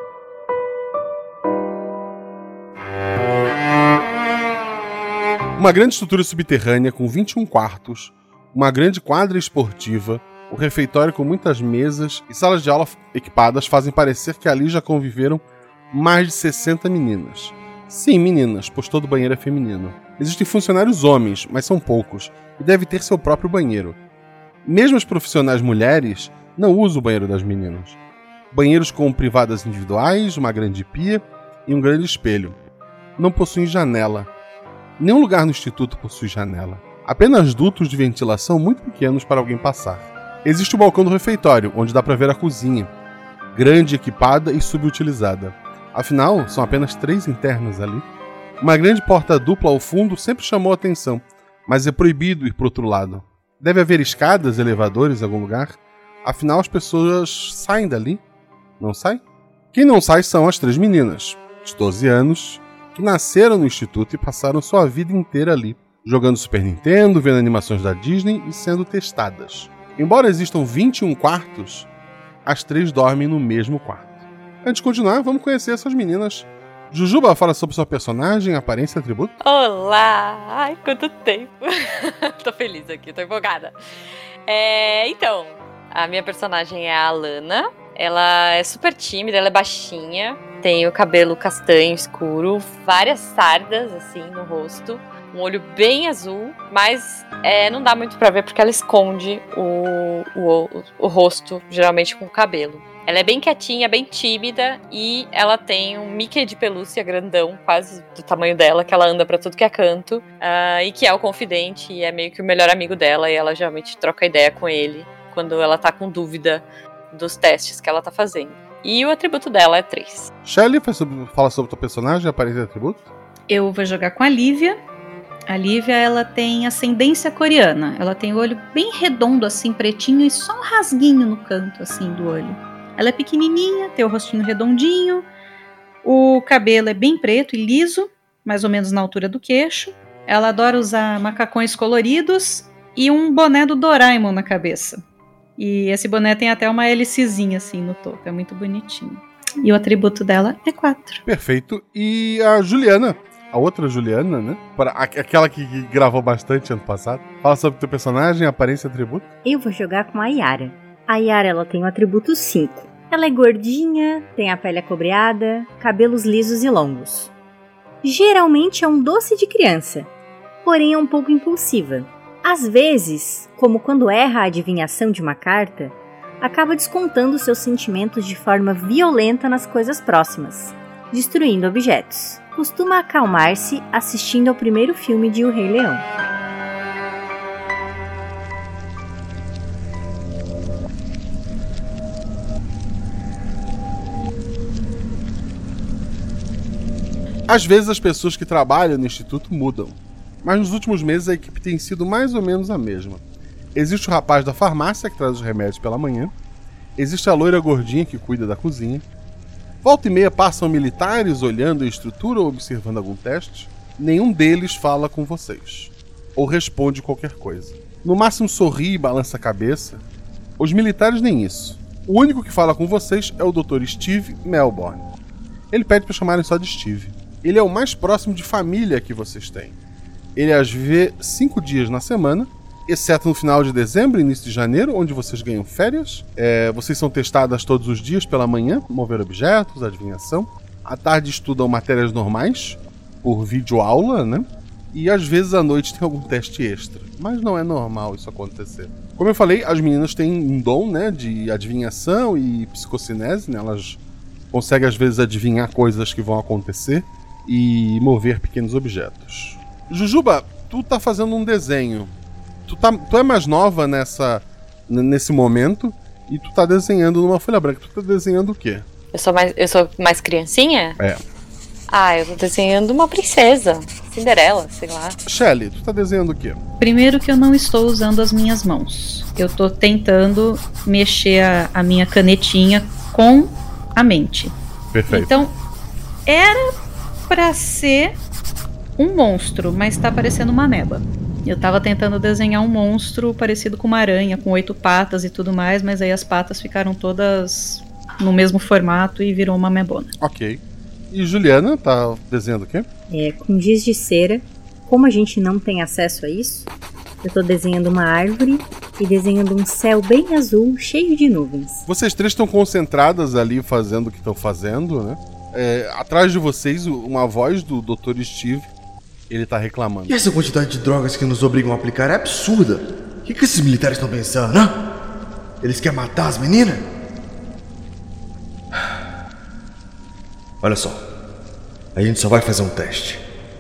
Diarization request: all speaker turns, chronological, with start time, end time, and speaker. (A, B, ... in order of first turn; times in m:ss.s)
0:05.6-0:24.0 A
0:24.7-0:28.0 A
0:28.5-0:32.6 A
0:33.2-0:34.3 A
0:35.0-0:42.9 A
0:43.5-0:48.1 A
0:48.6-0:58.2 A
0:58.8-0:59.2 A
0:59.7-1:11.9 A
1:12.5-1:19.3 A
1:19.4-1:23.8 B
1:24.5-2:00.3 B
2:00.4-2:03.1 A
2:03.5-2:04.8 C
2:05.5-2:15.3 C
2:16.0-2:25.0 C
2:25.6-2:31.2 C
2:31.2-2:39.3 A
2:39.4-2:47.3 D
2:48.0-2:50.1 D
2:50.6-3:06.0 D
3:17.5-3:23.2 A
3:23.8-3:26.3 A
3:27.0-3:29.0 A
3:29.8-3:40.0 A
3:40.6-3:45.1 A
3:45.7-3:49.8 A
3:50.4-4:14.0 A
4:14.5-4:22.1 A
4:22.7-4:28.8 A
4:29.1-4:31.0 B
4:31.9-4:35.2 B
4:35.3-4:36.6 A
4:36.8-4:44.6 C
4:44.9-4:45.3 A
4:45.1-4:45.6 C
4:46.3-4:46.8 C
4:47.3-4:48.2 C
4:49.0-5:00.1 C
5:00.2-5:02.9 A
5:03.1-5:06.7 D
5:07.2-5:11.8 D
5:11.9-5:18.7 A
5:19.3-5:20.1 A
5:20.1-5:24.8 E
5:25.6-5:26.8 E
5:30.6-5:31.1 E
5:32.0-5:33.2 E